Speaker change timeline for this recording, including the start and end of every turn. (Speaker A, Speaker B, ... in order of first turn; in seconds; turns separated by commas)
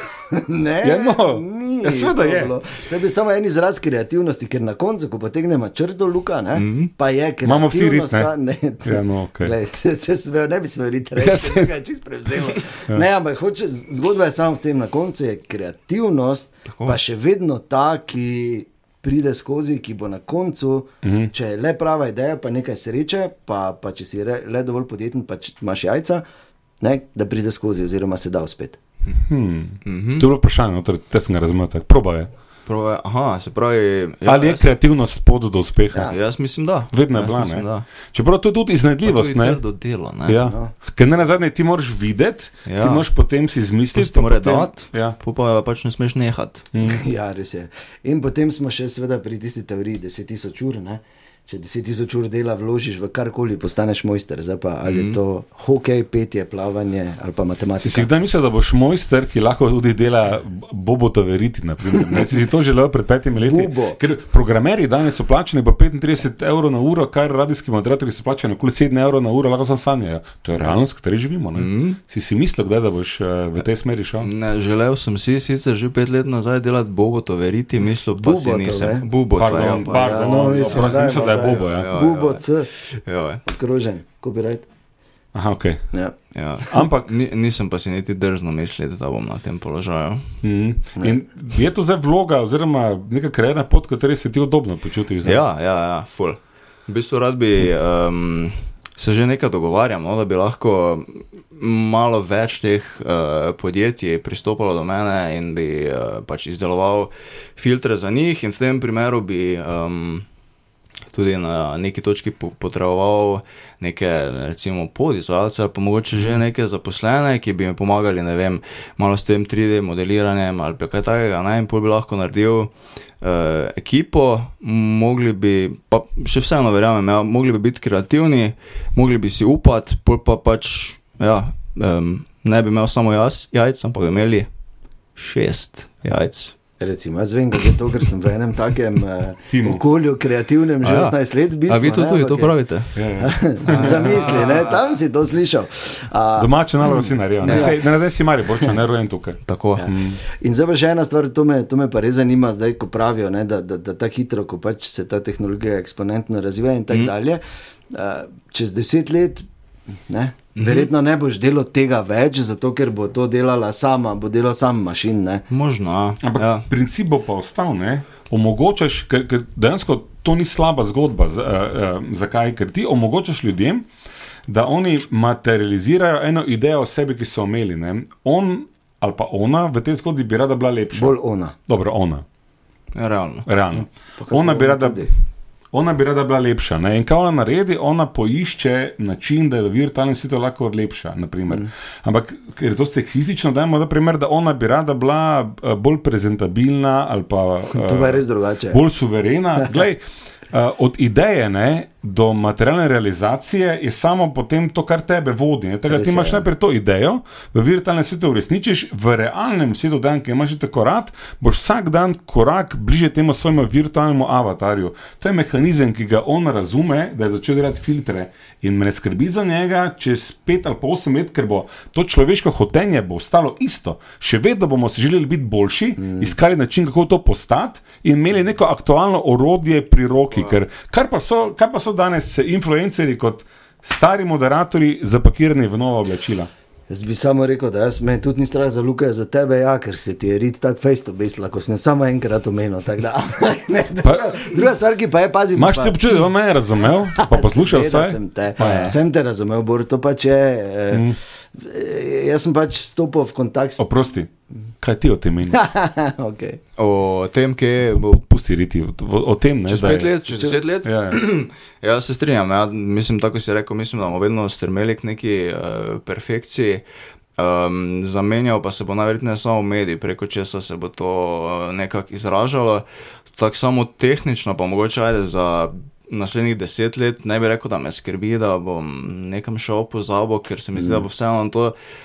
Speaker A: 0.3-26.2, Speaker B: 0.8-2.5, Speaker C: 6.5-6.9, Speaker B: 7.4-8.3, Speaker B: 8.8-9.5, Speaker B: 11.2-11.7, Speaker C: 16.7-17.0, Speaker B: 21.0-21.3, Speaker A: 26.8-28.8, Speaker B: 29.1-32.3, Speaker C: 29.8-30.3, Speaker C: 32.7-34.7, Speaker B: 34.3-36.1, Speaker C: 36.0-37.9, Speaker B: 36.9-39.6, Speaker C: 39.0-40.4, Speaker B: 40.3-45.2, Speaker A: 40.4-40.7, Speaker C: 42.6-43.0, Speaker C: 44.0-46.6, Speaker B: 46.7-47.0, Speaker A: 46.8-58.1, Speaker C: 54.9-55.2, Speaker B: 57.8-74.3, Speaker A: 63.4-64.0, Speaker C: 71.6-72.0, Speaker C: 74.2-83.4, Speaker A: 78.2-79.1, Speaker B: 79.4-81.9, Speaker A: 79.6-82.7, Speaker A: 83.5-84.7, Speaker B: 85.3-85.8, Speaker C: 86.3-90.3, Speaker B: 86.7-87.1, Speaker B: 90.4-95.4, Speaker C: 95.2-110.3, Speaker C: 111.1-134.5, Speaker C: 135.2-136.6, Speaker A: 136.8-142.5, Speaker B: 139.5-139.8, Speaker C: 140.8-142.9, Speaker B: 143.0-144.2, Speaker A: 143.2-147.8, Speaker C: 143.7-144.8, Speaker B: 146.4-150.2, Speaker C: 147.4-147.7, Speaker C: 149.5-149.9, Speaker A: 149.8-159.4, Speaker A: 160.1-165.4, Speaker C: 160.6-160.9, Speaker C: 165.5-166.7, Speaker B: 166.2-173.9, Speaker B: 174.5-181.1, Speaker A: 180.9-181.6, Speaker B: 181.7-182.2, Speaker C: 182.9-183.5, Speaker B: 183.5-185.1, Speaker A: 183.8-185.1, Speaker B: 185.7-236.5, Speaker A: 197.7-198.8, Speaker A: 205.9-206.4, Speaker A: 236.9-246.0, Speaker B: 244.0-244.4, Speaker B: 245.6-249.0, Speaker A: 247.1-253.8, Speaker B: 250.9-251.2, Speaker B: 253.8-254.3, Speaker B: 254.8-255.6, Speaker A: 255.5-256.6, Speaker C: 256.8-258.2, Speaker B: 257.9-260.1, Speaker C: 259.7-266.8, Speaker A: 260.3-260.6, Speaker B: 260.8-261.2, Speaker C: 267.4-272.8, Speaker C: 273.4-281.7, Speaker A: 280.8-281.1